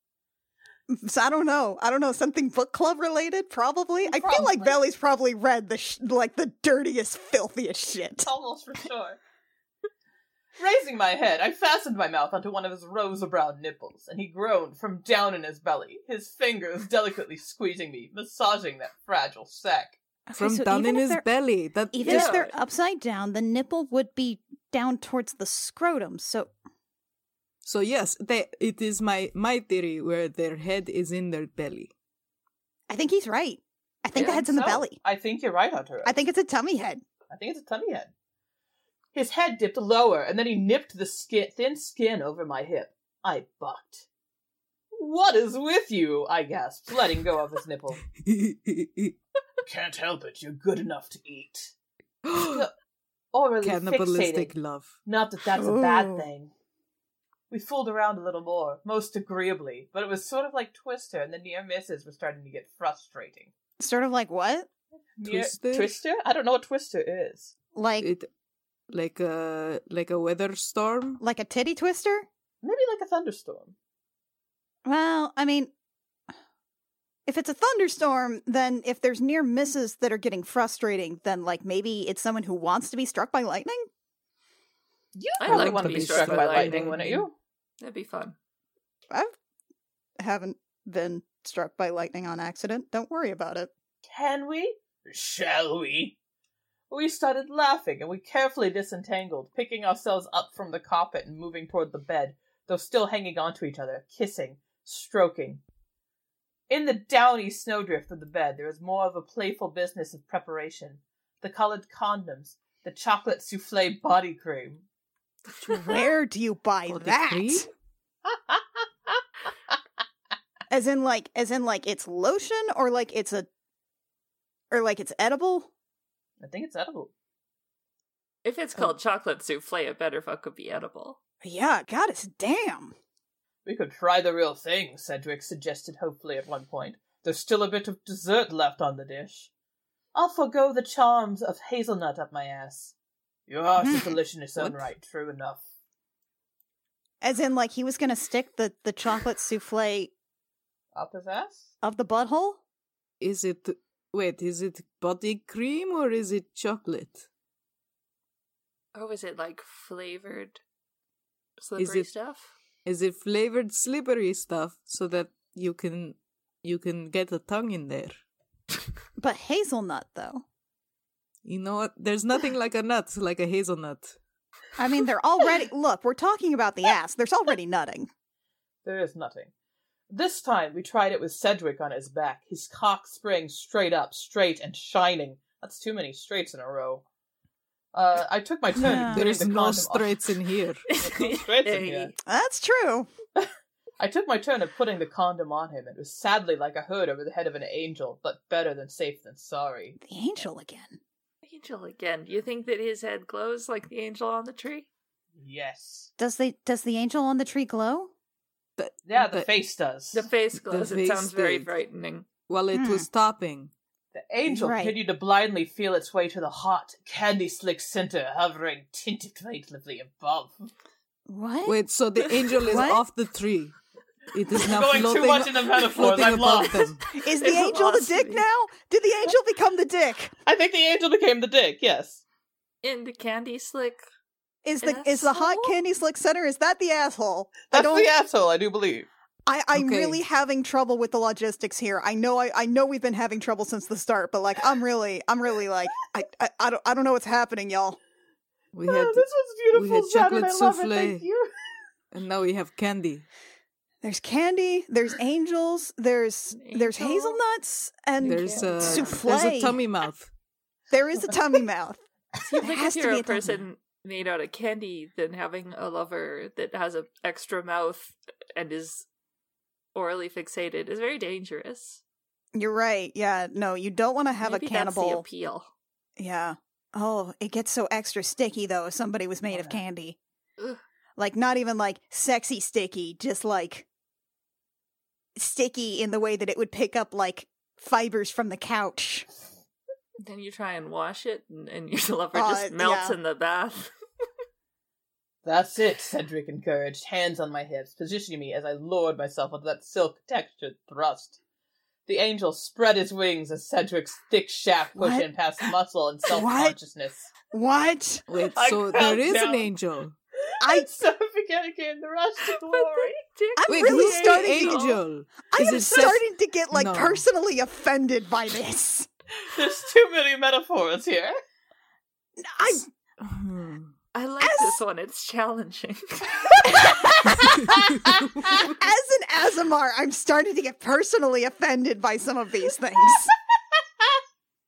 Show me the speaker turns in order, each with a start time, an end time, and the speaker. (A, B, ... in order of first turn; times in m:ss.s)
0:00.9-0:08.3 A
0:04.0-0:04.8 B
0:08.2-0:09.2 B
0:10.6-0:20.0 B
0:20.3-0:21.2 A
0:20.4-0:22.5 C
0:21.9-0:26.5 A
0:22.0-0:22.5 D
0:27.6-0:31.9 C
0:32.9-0:35.0 A
0:34.2-0:36.2 B
0:36.0-0:37.0 A
0:37.3-0:38.1 B
0:39.1-0:44.0 B
0:45.0-0:48.0 B
0:48.2-0:49.1 C
0:49.6-0:51.7 B
0:52.2-0:52.6 C
0:52.4-0:52.7 B
0:53.3-0:54.5 B
0:53.6-0:54.9 C
0:55.0-0:56.5 B
0:55.5-0:56.3 A
0:57.5-1:03.5 B
1:03.8-1:04.7 A
1:05.2-1:07.5 B
1:05.2-1:06.0 C
1:07.7-1:08.1 A
1:08.0-1:08.3 C
1:08.9-1:11.2 C
1:11.2-1:12.2 A
1:12.6-1:13.7 B
1:14.8-1:15.7 A
1:17.3-1:23.9 A
1:25.1-1:27.3 B
1:25.4-1:27.0 D
1:25.4-1:27.2 C
1:27.8-1:28.4 D
1:30.2-1:33.7 A
1:34.0-1:36.2 B
1:36.9-1:45.6 B
1:46.7-1:54.8 B
1:55.6-1:57.7 A
1:56.9-1:57.7 C
1:58.2-1:59.2 B
2:00.7-2:03.5 A
2:04.7-2:05.7 A
2:06.4-2:07.1 B
2:08.4-2:11.2 D
2:11.4-2:12.9 A
2:13.6-2:19.5 B
2:20.1-2:22.9 B
2:23.5-2:25.6 B
2:23.8-2:24.2 A
2:24.6-2:24.9 C
2:27.2-2:30.1 A
2:30.9-2:31.6 B
2:31.8-2:32.6 A
2:33.2-2:37.2 C
2:38.9-2:40.6 D
2:41.6-2:42.5 D
2:41.8-2:42.1 C
2:42.8-2:48.2 C
2:49.2-2:50.4 A
2:51.4-2:54.2 C
2:54.8-2:58.1 A
2:58.8-2:59.5 B
3:00.1-3:07.0 B
3:07.9-3:10.3 B
3:08.7-3:10.8 C
3:08.8-3:09.3 A
3:10.9-3:12.1 D
3:11.0-3:12.1 B
3:12.2-3:13.1 A
3:13.4-3:20.0 B
3:20.0-3:21.0 A
3:21.4-3:24.9 D
3:25.4-3:26.1 B
3:26.2-3:28.1 A
3:28.8-3:29.5 C
3:29.0-3:30.3 B
3:30.1-3:32.3 D
3:30.5-3:31.7 C
3:32.5-3:33.7 C
3:32.7-3:33.1 A
3:34.1-3:40.7 B
3:34.4-3:35.0 A
3:41.3-3:41.8 A
3:41.6-3:43.8 C
3:42.6-3:43.0 A
3:44.3-3:47.0 C
3:44.5-3:46.9 B
3:47.1-3:48.4 D
3:47.1-3:50.3 A
3:50.4-3:52.2 B
3:52.8-3:54.0 D
3:54.6-3:58.1 A
3:54.8-3:55.8 D
3:57.7-3:59.1 B
3:59.5-4:08.0 A
3:59.7-4:00.2 C
4:08.7-4:11.2 C
4:08.8-4:11.9 B
4:12.1-4:13.2 C
4:14.0-4:19.8 A
4:16.5-4:17.4 D
4:18.2-4:19.2 D
4:18.2-4:20.3 C
4:20.9-4:22.0 A
4:22.4-4:29.0 D
4:22.6-4:23.6 A
4:29.9-4:32.0 D
4:32.5-4:35.2 A
4:34.4-4:35.7 D
4:36.2-4:40.2 A
4:39.5-4:39.8 D
4:41.2-4:43.8 A
4:45.4-4:49.3 A
4:50.2-4:53.9 D
4:52.3-4:53.2 A
4:55.4-5:01.4 B
5:02.0-5:07.3 B
5:05.0-5:05.3 A
5:06.3-5:06.8 A
5:07.5-5:08.2 A
5:08.3-5:10.2 C
5:08.4-5:09.7 B
5:10.6-5:10.9 A
5:10.6-5:13.2 B
5:12.5-5:15.0 D
5:13.6-5:19.1 A
5:13.7-5:17.2 C
5:19.4-5:21.3 B
5:22.4-5:22.9 A
5:23.2-5:23.9 C
5:24.1-5:26.9 D
5:24.4-5:24.8 A
5:26.7-5:27.6 A
5:27.4-5:27.8 C
5:28.0-5:28.4 B
5:28.5-5:33.3 A